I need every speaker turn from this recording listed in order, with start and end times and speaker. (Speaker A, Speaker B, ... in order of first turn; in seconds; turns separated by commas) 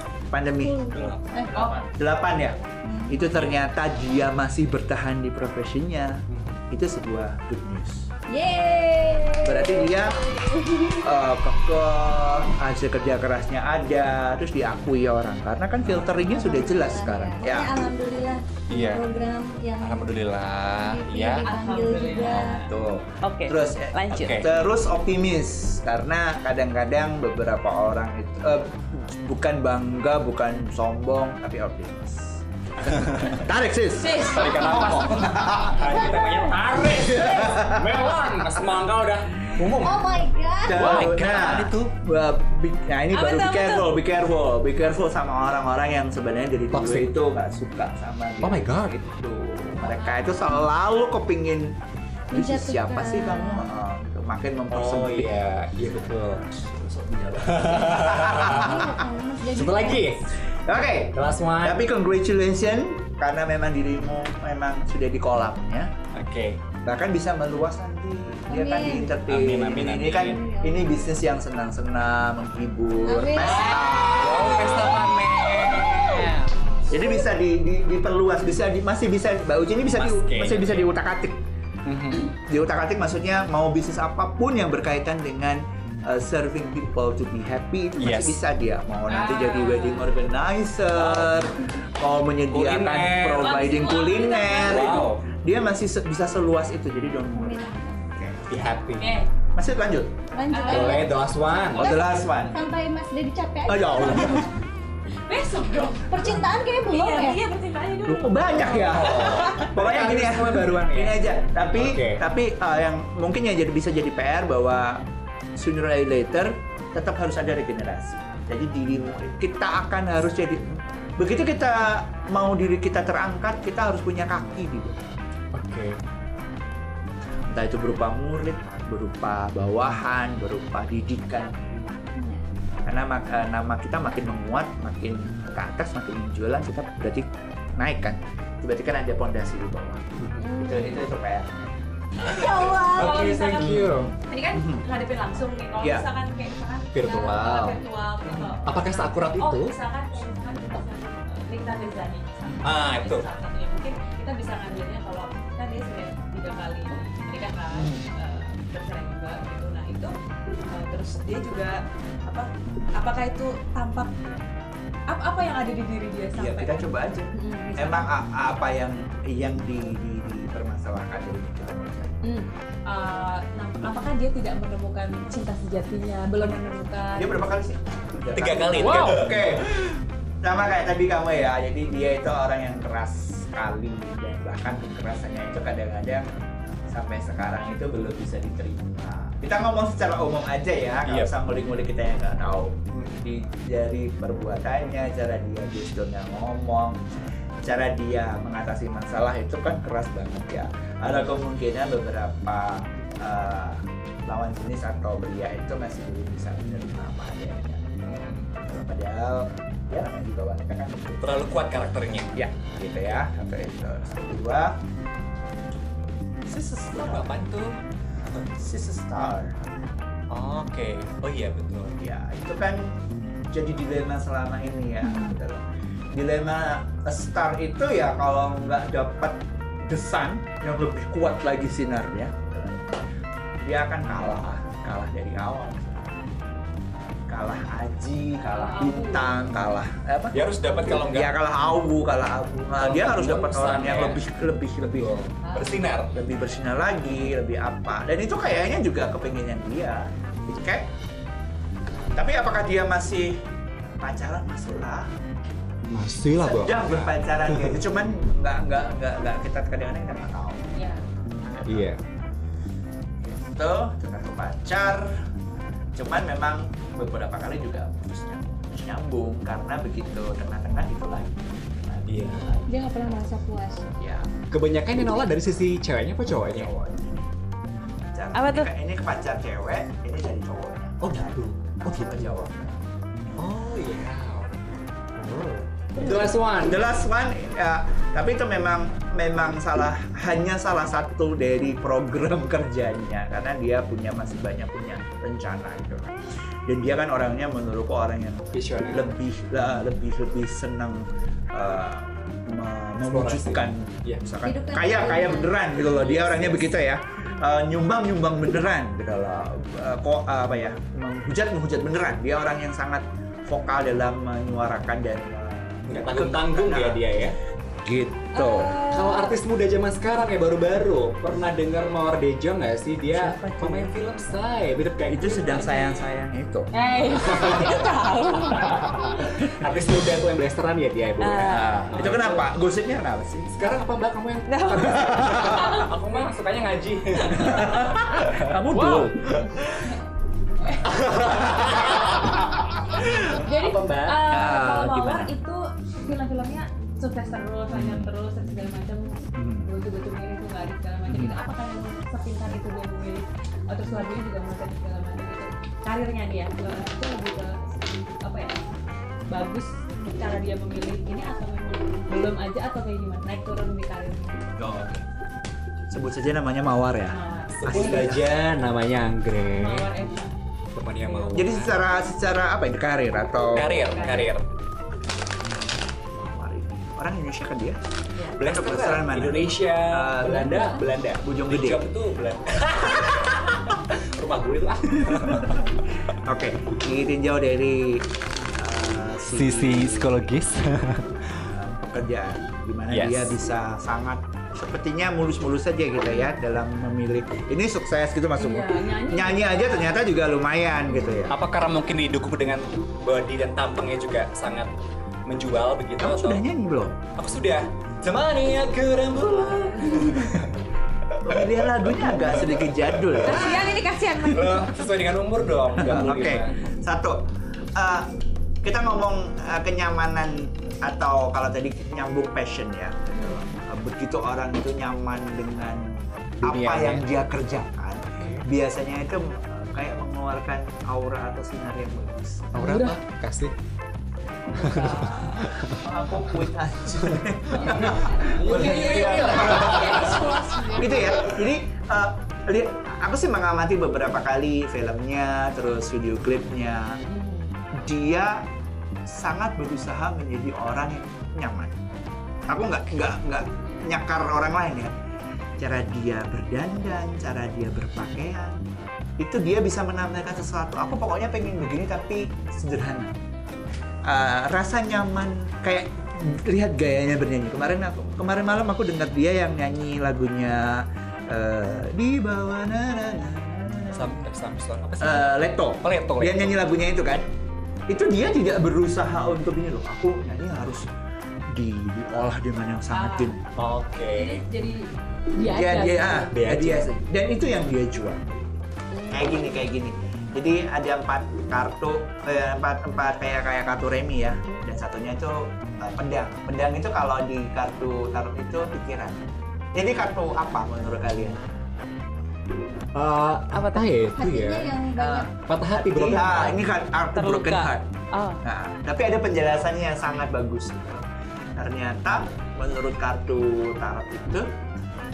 Speaker A: 0.3-8.1, Speaker B: 0.6-1.5, Speaker C: 0.9-1.7, Speaker D: 1.5-1.8, Speaker B: 2.8-3.2, Speaker C: 6.3-6.6, Speaker B: 8.3-11.1, Speaker A: 9.4-10.2, Speaker A: 11.0-17.8, Speaker B: 16.1-20.1, Speaker C: 18.7-19.0, Speaker C: 19.8-21.5, Speaker B: 20.8-22.6, Speaker D: 21.4-22.7, Speaker A: 22.2-34.3, Speaker D: 23.2-24.4, Speaker C: 24.1-24.5, Speaker C: 32.9-33.4, Speaker D: 34.0-35.1, Speaker C: 34.2-40.2, Speaker A: 34.9-36.0, Speaker B: 35.9-36.5, Speaker A: 37.1-38.0, Speaker B: 39.6-41.1, Speaker A: 40.6-51.8, Speaker C: 40.7-41.9, Speaker D: 43.1-43.9, Speaker C: 46.7-47.1, Speaker C: 48.4-48.9, Speaker D: 49.8-50.3, Speaker A: 52.3-55.4, Speaker B: 52.3-53.7, Speaker C: 54.7-56.4, Speaker A: 56.4-59.0, Speaker C: 57.4-58.8, Speaker B: 57.9-60.2, Speaker C: 59.5-60.2, Speaker A: 60.5-65.9, Speaker C: 61.1-61.8, Speaker C: 66.1-66.6, Speaker A: 66.8-75.1, Speaker B: 68.5-69.2, Speaker C: 69.2-70.4, Speaker B: 70.1-71.0, Speaker B: 73.0-73.8, Speaker C: 73.3-76.5, Speaker A: 76.9-81.4, Speaker C: 79.9-80.9, Speaker C: 81.8-82.3, Speaker A: 82.3-97.6, Speaker C: 88.0-88.4, Speaker D: 89.1-90.1, Speaker C: 91.0-91.5, Speaker C: 92.5-93.5, Speaker D: 93.3-95.1, Speaker C: 94.6-95.2, Speaker B: 97.3-98.1, Speaker A: 98.1-98.4, Speaker C: 98.5-99.1, Speaker D: 99.0-99.3, Speaker A: 99.5-100.2, Speaker B: 100.3-104.5, Speaker D: 100.5-101.1, Speaker C: 100.7-102.0, Speaker A: 101.7-102.6, Speaker A: 103.7-104.5, Speaker D: 105.2-106.3, Speaker B: 106.0-107.4, Speaker D: 106.9-109.7, Speaker A: 108.0-115.0, Speaker C: 108.6-111.2, Speaker C: 111.7-112.2, Speaker A: 115.5-125.0, Speaker C: 125.5-126.0, Speaker A: 127.5-131.8, Speaker B: 132.1-132.4, Speaker A: 132.8-141.6, Speaker C: 140.2-140.5, Speaker B: 140.4-141.0, Speaker C: 142.2-144.1, Speaker B: 142.3-143.3, Speaker D: 142.4-160.1, Speaker A: 144.5-144.8, Speaker A: 145.8-146.0, Speaker C: 146.9-149.7, Speaker C: 152.6-153.2, Speaker A: 157.7-158.1, Speaker D: 160.7-164.3, Speaker D: 165.1-166.8, Speaker A: 166.3-172.2, Speaker D: 167.3-168.1, Speaker D: 172.2-177.5, Speaker A: 177.2-186.3, Speaker C: 178.3-179.6, Speaker A: 186.8-197.0, Speaker A: 197.6-208.0, Speaker C: 208.1-208.5, Speaker A: 208.5-211.2, Speaker C: 211.2-212.3, Speaker A: 212.3-214.8, Speaker A: 216.4-217.3, Speaker C: 216.9-218.5, Speaker A: 218.5-219.6, Speaker C: 220.3-222.0, Speaker A: 222.0-223.0, Speaker A: 223.5-233.0, Speaker B: 225.0-225.3, Speaker A: 233.6-236.2, Speaker A: 237.3-245.1, Speaker D: 238.5-239.6, Speaker C: 240.3-241.3, Speaker C: 242.8-244.2, Speaker C: 244.8-246.1, Speaker D: 245.4-245.7, Speaker A: 246.1-250.9, Speaker A: 252.1-253.4, Speaker A: 254.0-255.1, Speaker C: 255.8-257.7, Speaker A: 256.4-260.7, Speaker D: 260.7-261.0, Speaker A: 261.5-261.9, Speaker C: 261.6-262.0, Speaker A: 263.2-265.1, Speaker A: 265.9-272.7, Speaker C: 272.1-272.5, Speaker B: 272.7-273.8, Speaker A: 273.9-274.3, Speaker C: 274.5-276.7, Speaker A: 276.5-277.1, Speaker A: 278.1-282.8, Speaker D: 278.3-278.7, Speaker C: 281.0-282.3, Speaker C: 283.4-284.5, Speaker C: 285.1-286.9, Speaker A: 286.6-296.1, Speaker A: 296.6-317.0, Speaker C: 298.5-299.1, Speaker C: 303.1-304.2, Speaker B: 304.4-305.6, Speaker C: 305.7-306.7, Speaker C: 315.9-317.4, Speaker A: 317.8-318.8, Speaker D: 318.3-319.4, Speaker C: 318.9-325.6, Speaker A: 323.1-323.9, Speaker A: 325.1-326.7, Speaker D: 326.7-329.4, Speaker C: 327.2-327.8, Speaker C: 328.6-332.4, Speaker D: 331.2-332.3, Speaker A: 331.5-333.6, Speaker C: 333.5-339.4, Speaker D: 334.5-335.9, Speaker A: 334.9-335.8, Speaker A: 337.3-339.5, Speaker D: 338.7-339.1, Speaker D: 340.6-340.9, Speaker C: 340.9-344.2, Speaker D: 343.2-358.6, Speaker A: 344.3-345.3, Speaker A: 347.7-348.1, Speaker A: 349.4-349.6, Speaker A: 351.1-351.3, Speaker D: 359.3-364.4, Speaker A: 364.6-365.0, Speaker A: 365.9-368.3, Speaker D: 367.1-368.2, Speaker C: 367.5-369.9, Speaker D: 369.6-370.3, Speaker C: 370.7-371.8, Speaker D: 371.0-371.4, Speaker A: 371.3-373.9, Speaker C: 373.5-374.4, Speaker D: 373.8-374.3, Speaker A: 376.1-377.8, Speaker C: 378.4-385.7, Speaker A: 378.4-381.9, Speaker A: 385.1-390.3, Speaker C: 389.3-391.5, Speaker A: 391.4-401.4, Speaker C: 392.9-393.3, Speaker D: 398.4-400.0, Speaker C: 401.3-404.7, Speaker C: 405.3-406.4, Speaker A: 406.0-407.0, Speaker C: 407.2-410.6, Speaker D: 409.5-410.2, Speaker C: 411.1-416.5, Speaker A: 411.2-413.8, Speaker D: 413.2-414.8, Speaker A: 415.7-432.6, Speaker D: 423.1-423.4, Speaker C: 426.4-427.0, Speaker C: 428.2-428.4, Speaker C: 432.5-433.5, Speaker D: 432.6-433.0, Speaker A: 434.5-447.0, Speaker C: 434.6-436.4, Speaker C: 437.0-441.2, Speaker D: 437.5-441.2, Speaker D: 447.0-447.5, Speaker A: 447.7-448.4, Speaker A: 449.1-451.8, Speaker A: 452.5-454.9, Speaker A: 455.6-458.6, Speaker A: 459.2-463.2, Speaker A: 464.0-474.3, Speaker C: 473.9-476.6, Speaker A: 475.0-477.2, Speaker A: 477.9-480.9, Speaker A: 481.5-483.4, Speaker D: 482.9-483.3, Speaker C: 483.6-484.4, Speaker D: 484.1-486.3, Speaker A: 485.4-501.4, Speaker C: 486.3-486.9, Speaker C: 502.9-504.7, Speaker D: 503.5-503.9, Speaker B: 504.1-505.3, Speaker A: 504.9-507.9, Speaker C: 505.4-506.6, Speaker D: 507.1-508.4, Speaker A: 508.4-514.5